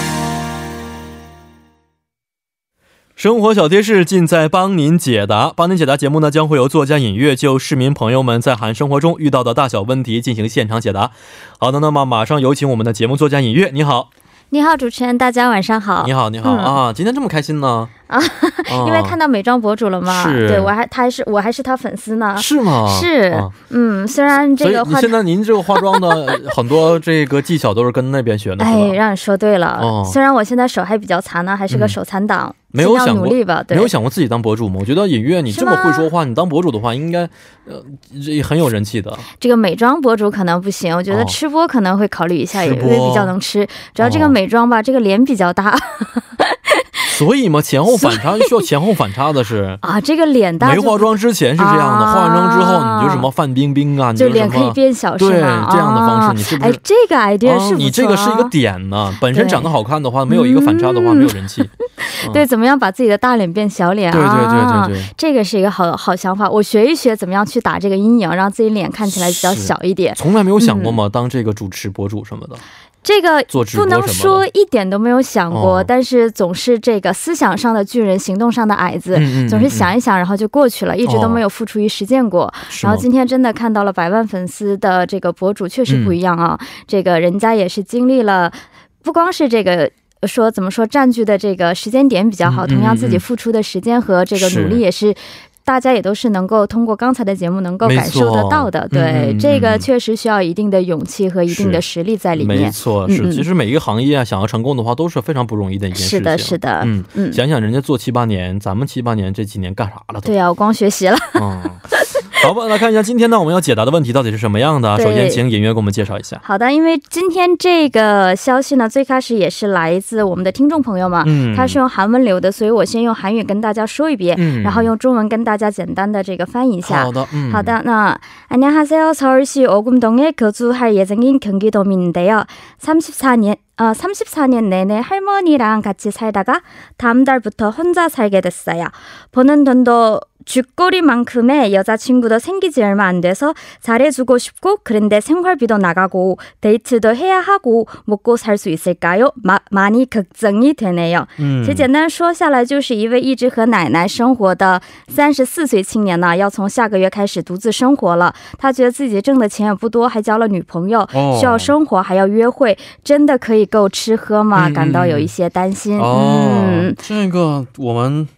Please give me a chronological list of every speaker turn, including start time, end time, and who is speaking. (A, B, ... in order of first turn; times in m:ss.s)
0:03.2-0:14.1 A
0:14.5-0:16.8 B
0:16.0-0:17.9 A
0:18.1-0:25.2 B
0:18.7-0:19.2 A
0:20.0-0:20.7 A
0:22.4-0:23.5 A
0:24.4-0:29.0 A
0:25.7-0:26.5 B
0:28.6-0:33.9 B
0:29.8-0:30.2 A
0:31.7-0:32.0 A
0:32.7-0:39.2 A
0:35.5-0:36.1 B
0:39.4-0:47.0 B
0:41.1-0:41.3 A
0:42.5-0:43.3 A
0:44.0-0:44.3 A
0:47.0-0:49.8 A
0:47.9-0:48.6 B
0:49.8-0:53.3 B
0:50.6-0:56.8 A
0:54.2-0:58.5 B
0:57.4-1:02.4 A
0:59.3-0:59.7 B
1:00.3-1:01.3 B
1:02.0-1:11.0 B
1:04.1-1:05.1 A
1:09.2-1:12.6 A
1:13.0-1:43.4 B
1:13.5-1:14.4 A
1:15.5-1:15.9 A
1:19.1-1:19.9 A
1:21.0-1:21.4 A
1:22.7-1:23.0 A
1:25.9-1:26.1 A
1:32.4-1:33.2 A
1:34.3-1:34.8 A
1:37.8-1:39.9 A
1:41.5-1:41.8 A
1:42.4-1:50.3 A
1:45.9-1:47.4 B
1:50.2-1:52.4 B
1:51.4-1:56.4 A
1:55.0-1:55.4 B
1:56.4-2:47.0 B
2:01.2-2:01.8 A
2:04.4-2:04.9 A
2:06.8-2:07.7 A
2:31.4-2:31.9 A
2:41.1-2:41.7 A
2:44.5-2:45.3 A
2:46.0-2:48.3 A